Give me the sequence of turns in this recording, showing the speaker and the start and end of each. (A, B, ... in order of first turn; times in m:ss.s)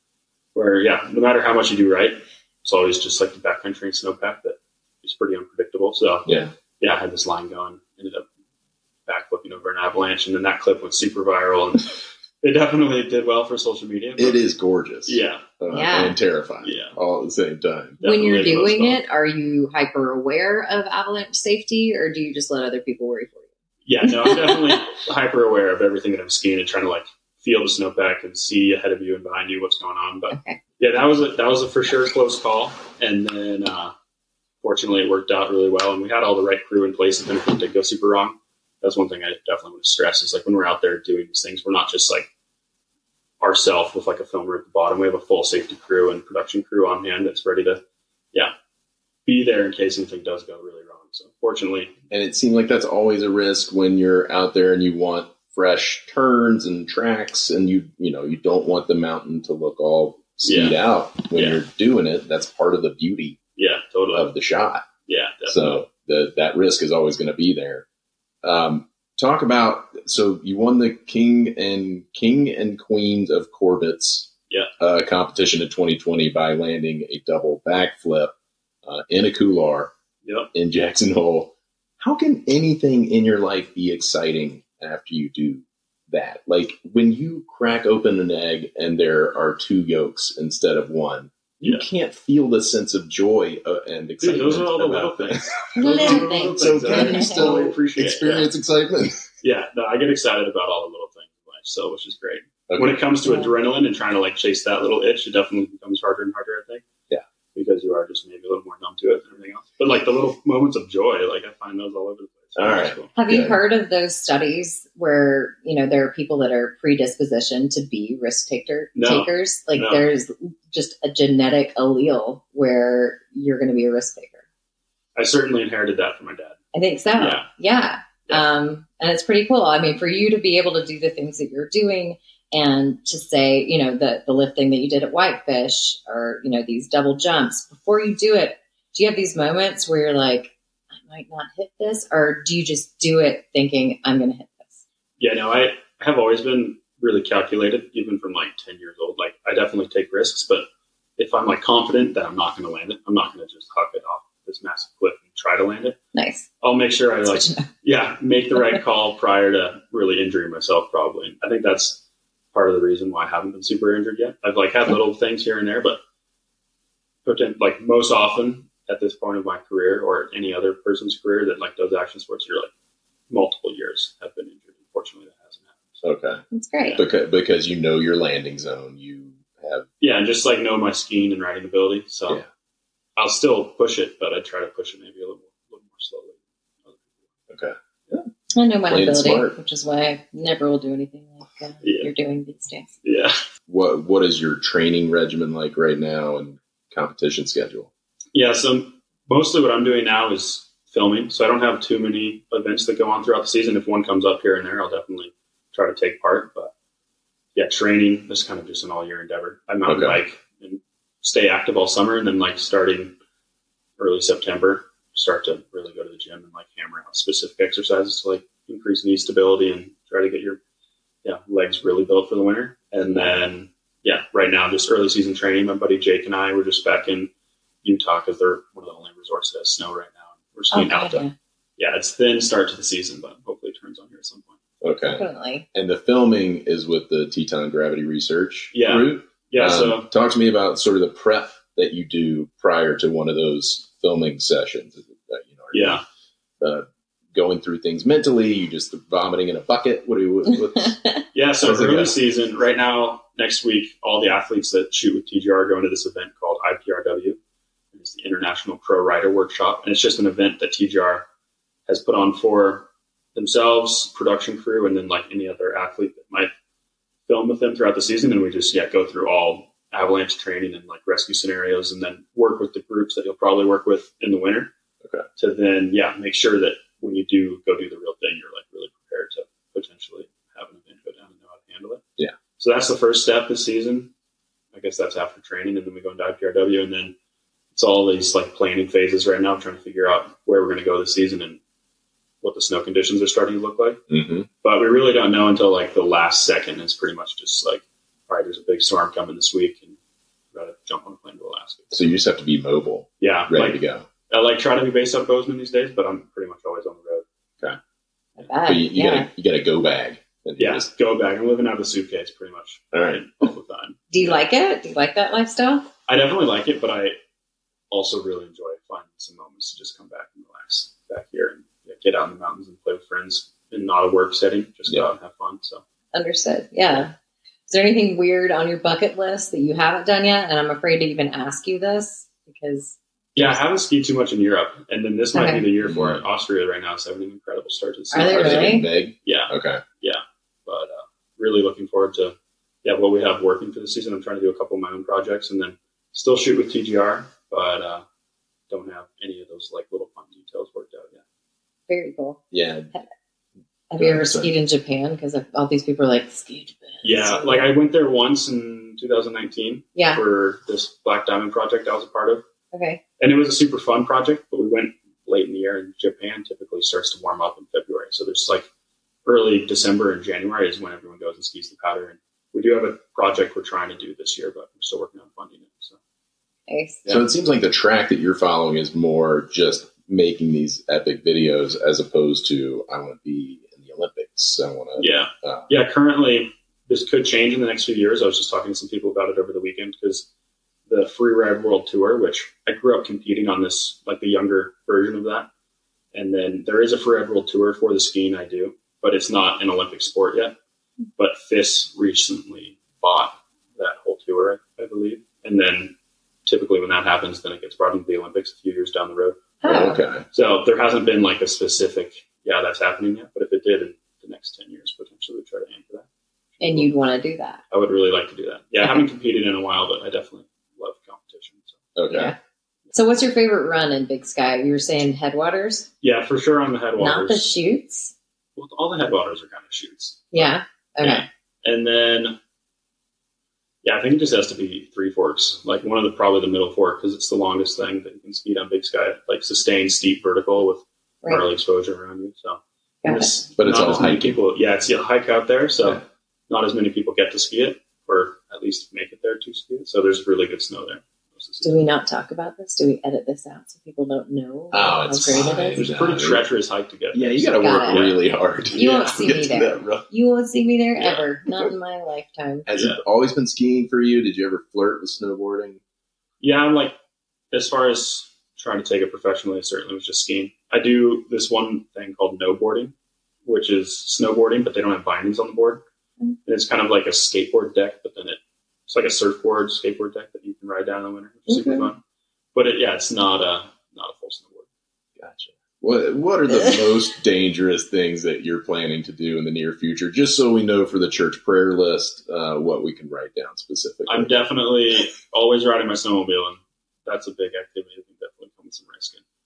0:00.6-0:06.3 A
0:06.3-0:06.5 B
0:06.8-0:08.3 A
0:09.1-0:14.4 A
0:14.2-0:18.0 B
0:15.1-0:15.4 A
0:15.7-0:16.2 C
0:16.6-0:17.0 A
0:18.0-0:19.0 A
0:18.0-0:23.5 C
0:23.8-0:33.9 A
0:24.0-0:24.6 C
0:30.3-0:30.6 C
0:34.6-0:42.3 A
0:43.4-0:47.8 A
0:49.3-0:51.9 A
0:52.1-1:03.4 B
1:00.4-1:00.8 A
1:01.3-1:01.6 A
1:03.6-1:04.3 A
1:04.1-1:04.9 B
1:05.1-1:05.8 A
1:05.5-1:07.9 B
1:08.4-1:18.3 B
1:18.8-1:19.9 B
1:20.2-1:20.5 A
1:20.5-1:39.2 B
1:31.6-1:31.9 A
1:34.2-1:38.5 A
1:35.8-1:37.6 C
1:39.4-1:46.8 A
1:42.7-1:43.0 B
1:43.3-1:43.5 C
1:47.6-1:53.1 A
1:52.6-1:53.6 B
1:53.2-2:04.4 C
1:59.0-2:00.0 A
2:05.2-2:06.6 A
2:06.7-2:24.8 C
2:07.2-2:07.5 A
2:25.2-2:30.7 A
2:31.2-2:36.0 A
2:36.1-2:36.5 C
2:36.6-2:42.0 A
2:37.4-2:37.6 C
2:42.5-2:46.0 A
2:47.2-2:52.7 A
2:53.3-2:55.8 A
2:56.0-2:56.4 B
2:56.5-2:57.0 C
2:56.8-2:57.1 A
2:57.0-2:59.9 B
3:00.0-3:02.4 A
3:03.2-3:07.2 A
3:07.5-3:08.2 B
3:08.5-3:12.9 C
3:08.9-3:09.6 B
3:11.8-3:12.1 A
3:13.0-3:13.4 A
3:13.7-3:17.9 B
3:18.3-3:26.7 A
3:27.6-3:33.2 A
3:29.9-3:30.2 B
3:34.0-3:40.6 A
3:41.2-3:47.3 A
3:43.1-3:43.4 B
3:47.8-3:54.6 A
3:50.7-3:51.3 C
3:54.8-4:06.0 B
3:55.1-3:55.6 C
3:58.7-4:00.1 A
4:05.7-4:06.0 A
4:06.6-4:11.0 B
4:11.3-4:17.4 A
4:11.6-4:12.2 B
4:17.9-4:21.3 A
4:21.9-4:26.5 A
4:27.3-4:34.7 A
4:35.4-4:42.0 A
4:42.6-4:44.1 A
4:44.7-4:47.2 A
4:47.7-4:51.6 A
4:52.4-4:54.0 A
4:54.1-4:54.5 B
4:54.6-5:00.0 A
5:00.5-5:02.1 A
5:01.9-5:04.1 B
5:03.2-5:07.2 A
5:08.4-5:09.3 C
5:08.6-5:10.9 B
5:10.6-5:14.4 A
5:12.9-5:13.3 B
5:14.1-5:15.9 C
5:16.1-5:17.2 A
5:17.9-5:25.8 A
5:26.1-5:27.1 C
5:27.7-5:33.6 C
5:33.4-5:48.0 A
5:35.3-5:35.7 C
5:35.8-5:36.2 B
5:38.1-5:38.9 C
5:38.2-5:39.8 B
5:48.7-5:51.2 A
5:51.9-5:53.1 C
5:52.5-5:52.9 B
5:53.9-5:57.7 C
5:54.0-5:54.5 B
5:57.0-6:02.4 A
6:00.0-6:00.2 C
6:02.7-6:03.0 C
6:03.2-6:08.7 A
6:09.2-6:16.0 A
6:16.7-6:17.0 C
6:17.1-6:25.7 B
6:25.0-6:30.3 A
6:30.9-6:35.5 A
6:36.1-6:40.6 A
6:41.2-6:46.0 A
6:46.5-6:49.4 A
6:49.6-6:50.0 C
6:49.6-6:50.2 B
6:50.3-6:56.9 A
6:56.6-6:57.6 C
6:57.7-7:01.8 A
7:02.0-7:02.4 B
7:02.1-7:02.4 C
7:02.9-7:05.9 C
7:06.0-7:07.5 A
7:07.0-7:08.1 C
7:08.6-7:12.4 A
7:10.3-7:11.3 C
7:13.8-7:31.9 A
7:23.0-7:23.3 C
7:23.6-7:24.4 B
7:31.6-7:35.8 C
7:34.7-7:36.4 B
7:35.4-7:38.2 A
7:37.1-7:40.0 B
7:37.6-7:38.0 C
7:38.7-7:39.4 A
7:38.7-7:42.7 C
7:41.0-7:41.2 A
7:42.7-7:45.8 B
7:42.7-7:43.0 A
7:46.4-7:47.0 A
7:47.5-7:52.9 A
7:53.4-7:55.8 A
7:56.4-8:02.0 A
8:01.5-8:01.9 C
8:02.5-8:04.7 A
8:05.2-8:14.4 B
8:14.1-8:19.2 A